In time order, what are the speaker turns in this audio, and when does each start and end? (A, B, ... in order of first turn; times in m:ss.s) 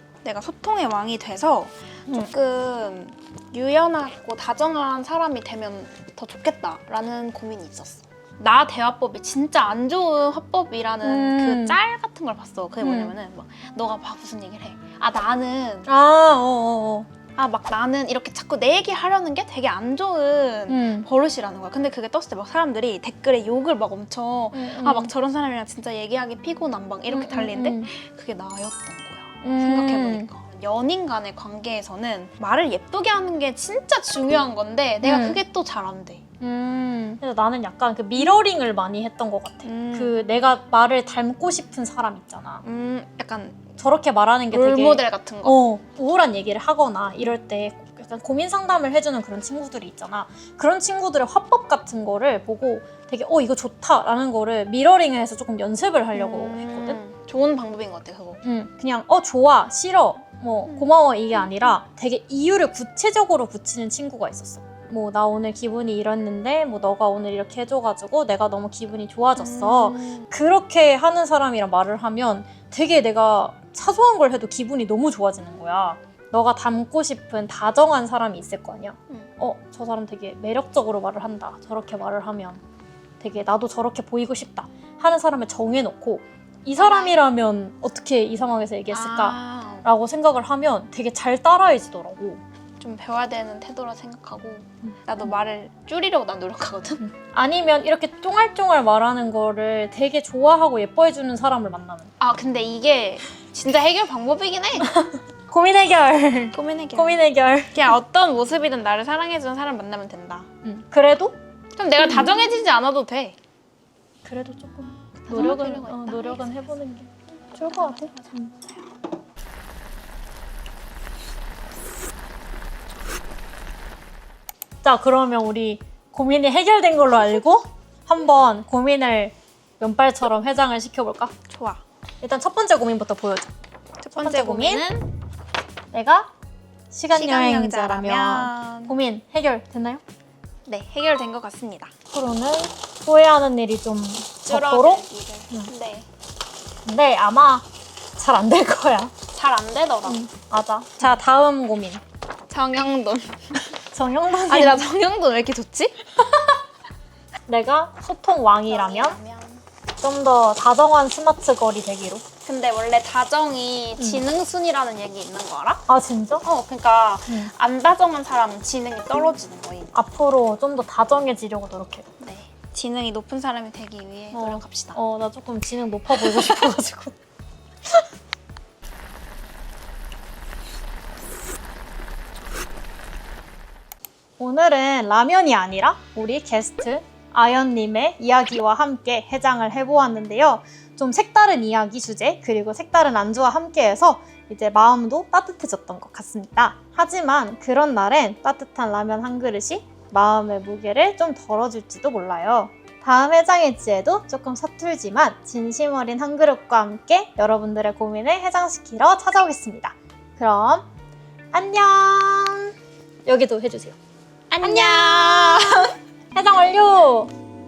0:00.2-0:15.9 A
0:11.0-0:11.8 B
0:12.8-0:13.1 B
0:15.9-0:17.1 B
0:17.4-0:36.2 A
0:20.7-0:21.1 B
0:24.5-0:25.1 B
0:27.1-0:27.9 B
0:29.4-0:30.3 B
0:35.0-0:35.4 B
0:36.4-0:42.6 B
0:39.6-0:40.2 A
0:42.6-0:43.7 A
0:43.8-0:57.0 B
0:44.5-0:45.6 A
0:56.1-0:58.4 A
0:58.4-1:22.6 B
1:09.4-1:10.3 A
1:23.2-1:32.4 B
1:26.8-1:27.2 A
1:28.9-1:29.9 A
1:32.8-1:37.0 A
1:37.0-1:42.1 B
1:42.2-1:44.9 A
1:44.8-1:48.0 B
1:46.5-1:47.2 A
1:47.7-1:50.5 A
1:50.6-1:51.4 B
1:51.8-1:53.4 A
1:52.0-1:52.3 B
1:54.2-1:58.5 B
1:55.2-1:56.8 A
1:57.5-1:58.8 A
2:04.8-2:11.3 B
2:11.5-2:11.8 A
2:12.2-2:13.5 B
2:14.0-2:15.1 A
2:14.1-2:14.8 B
2:15.9-2:16.3 B
2:16.9-2:20.0 B
2:17.1-2:18.9 A
2:20.6-2:21.9 A
2:22.1-2:25.7 B
2:24.5-2:26.1 A
2:26.8-2:29.1 B
2:29.3-2:30.2 A
2:30.0-2:32.0 B
2:32.5-2:33.6 A
2:33.9-2:34.9 B
2:34.5-2:36.0 A
2:37.5-2:39.2 B
2:38.6-2:39.6 A
2:40.0-2:42.2 B
2:42.4-2:45.8 A
2:45.9-2:46.4 B
2:46.4-2:49.9 A
2:49.9-2:52.1 B
2:52.2-2:55.0 A
2:54.3-2:57.2 B
2:56.1-2:56.8 A
3:04.4-3:30.8 B
3:31.5-3:32.7 B
3:33.2-3:34.0 B
3:34.5-3:35.9 A
3:34.6-3:37.3 B